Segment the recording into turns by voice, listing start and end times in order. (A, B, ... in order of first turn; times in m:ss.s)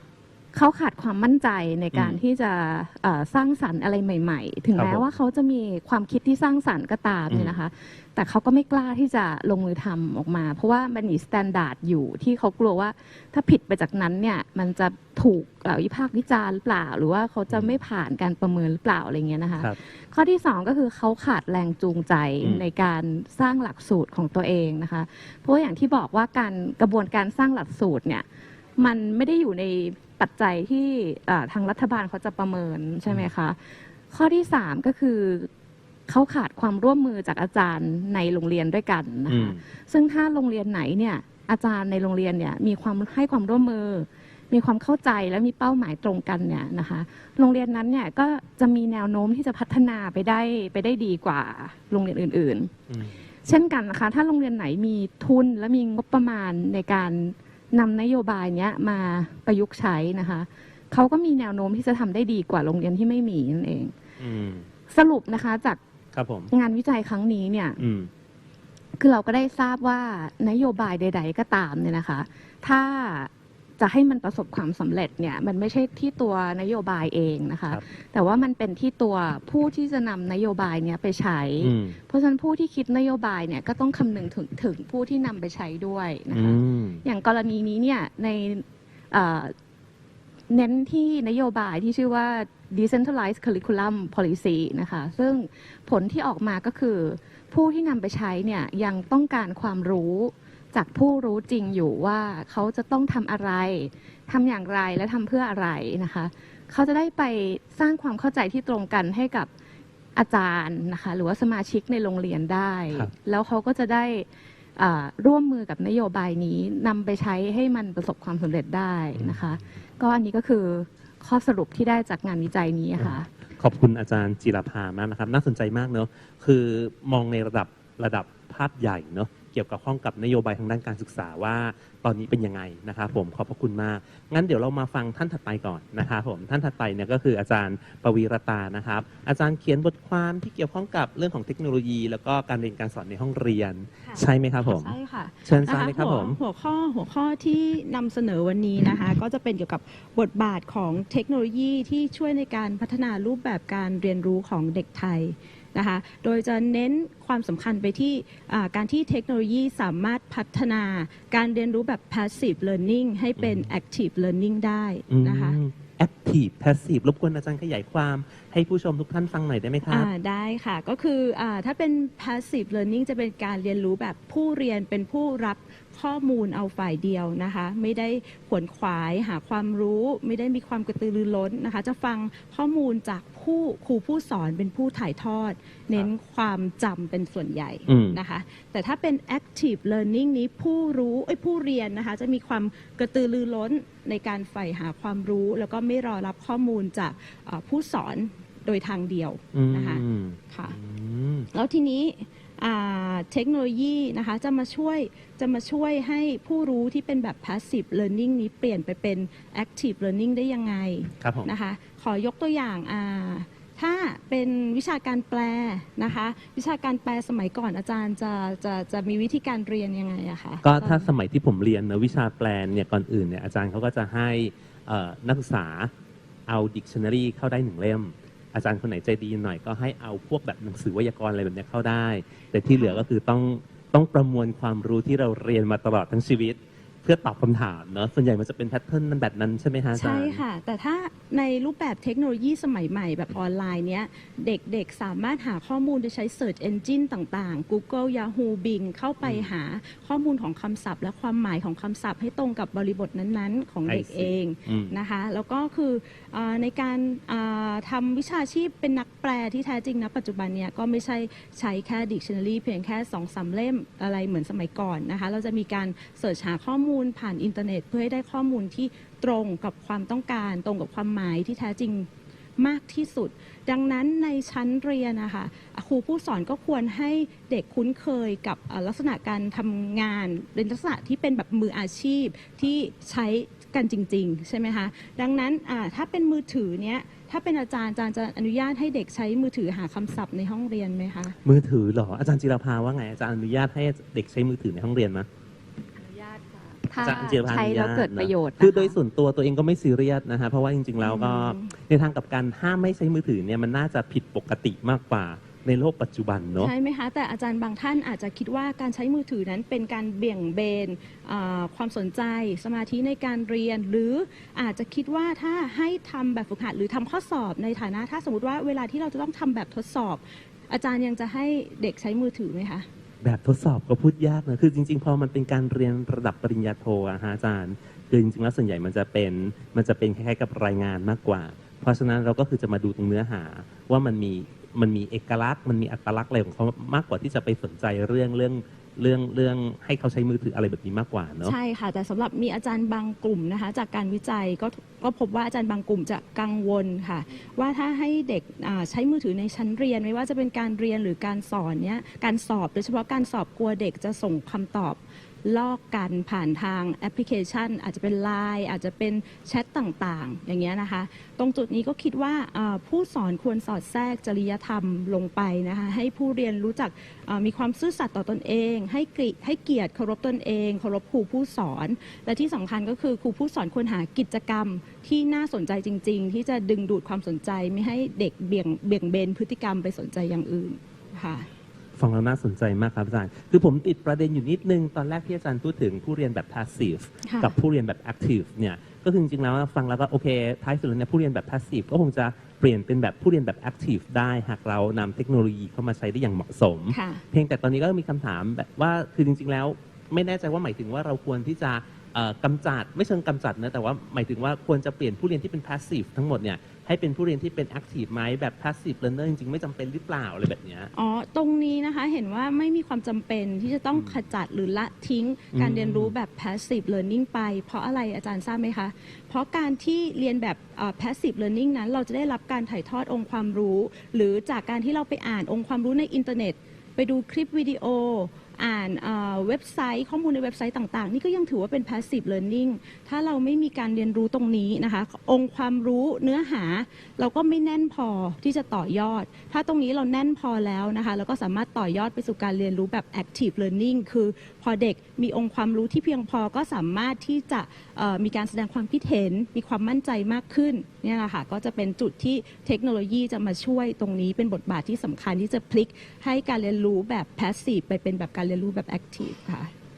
0:00.5-0:28.2 A
0:01.9-0:02.2 B
0:04.7-0:05.1 B
0:07.3-0:07.6 B
0:17.5-0:17.8 B
0:28.8-0:35.5 A
0:36.1-0:52.7 A
0:39.3-0:39.6 B
0:52.9-0:53.2 B
0:53.4-1:03.9 A
1:04.2-1:04.7 B
1:04.9-1:05.8 A
1:06.1-1:06.5 B
1:06.5-1:07.8 A
1:07.8-1:08.1 B
1:09.0-1:29.5 A
1:21.6-1:22.0 B
1:26.3-1:27.0 B
1:30.5-1:49.5 A
1:50.2-2:03.3 A
1:59.2-1:59.6 B
2:03.0-2:26.4 B
2:24.0-2:45.6 C
2:43.4-2:43.7 B
2:45.1-2:50.1 B
2:49.9-3:20.8 C
3:07.9-3:08.2 B
3:19.5-3:21.5 B
3:21.5-3:41.1 C
3:31.2-3:31.5 B
3:40.6-3:45.9 B
3:46.5-4:00.4 B
3:52.7-3:53.0 C
3:59.9-4:51.4 C
4:09.2-4:09.5 B
4:13.8-4:14.9 B
4:51.4-4:55.3 B
4:56.0-4:59.0 A
4:57.0-5:06.7 B
5:01.0-5:01.7 C
5:06.6-5:22.8 C
5:23.2-5:41.5 B
5:41.4-6:21.5 C
6:22.0-6:50.9 B
6:27.2-6:27.5 C
6:36.9-6:37.2 C
6:50.9-7:39.7 C
6:55.5-6:56.1 B